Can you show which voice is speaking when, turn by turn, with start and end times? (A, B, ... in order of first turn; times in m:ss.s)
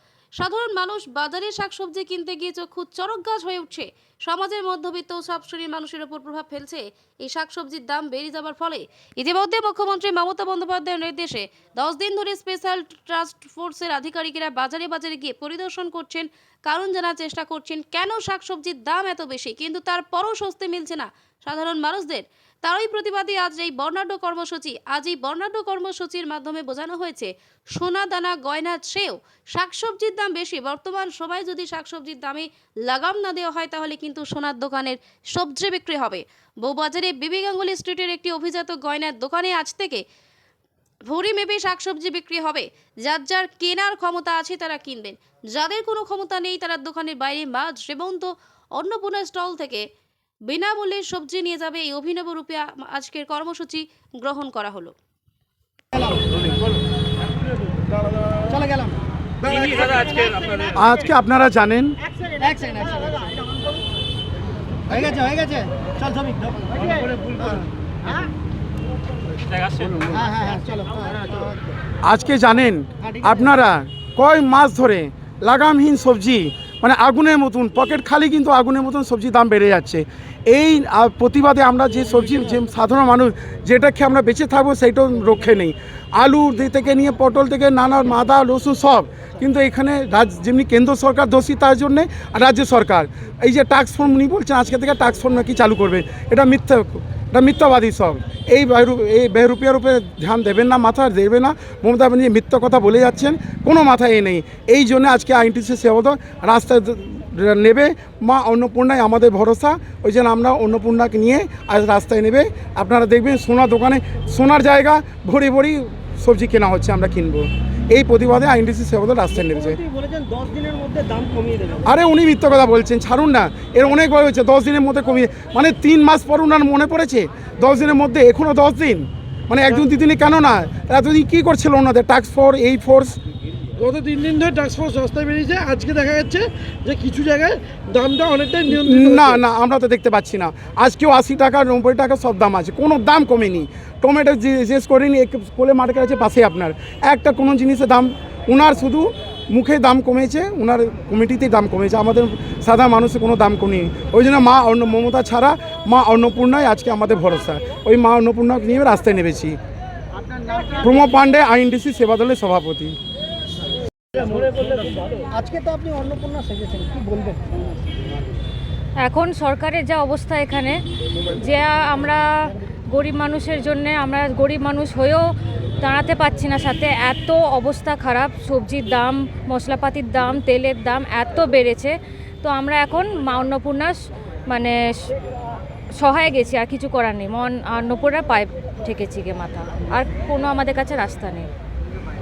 0:00.4-0:40.0 A
0:41.1-0:49.9 A
0:50.5-0:54.9 A
0:55.9-0:56.5 B
0:58.4-1:00.7 B
1:00.7-1:02.0 C
1:02.3-1:03.7 B
1:04.9-1:08.2 B
1:09.8-1:11.6 B
1:12.0-1:59.8 C
1:13.0-1:13.4 B
1:59.3-2:01.9 B
2:01.8-2:13.2 C
2:13.8-2:19.4 D
2:18.7-2:39.6 C
2:40.4-2:40.8 B
2:40.8-2:43.0 C
2:44.1-2:48.4 B
2:49.0-2:50.8 E
2:51.3-2:55.2 E
2:55.8-3:03.9 E
3:04.5-3:05.1 E
3:06.0-3:11.4 E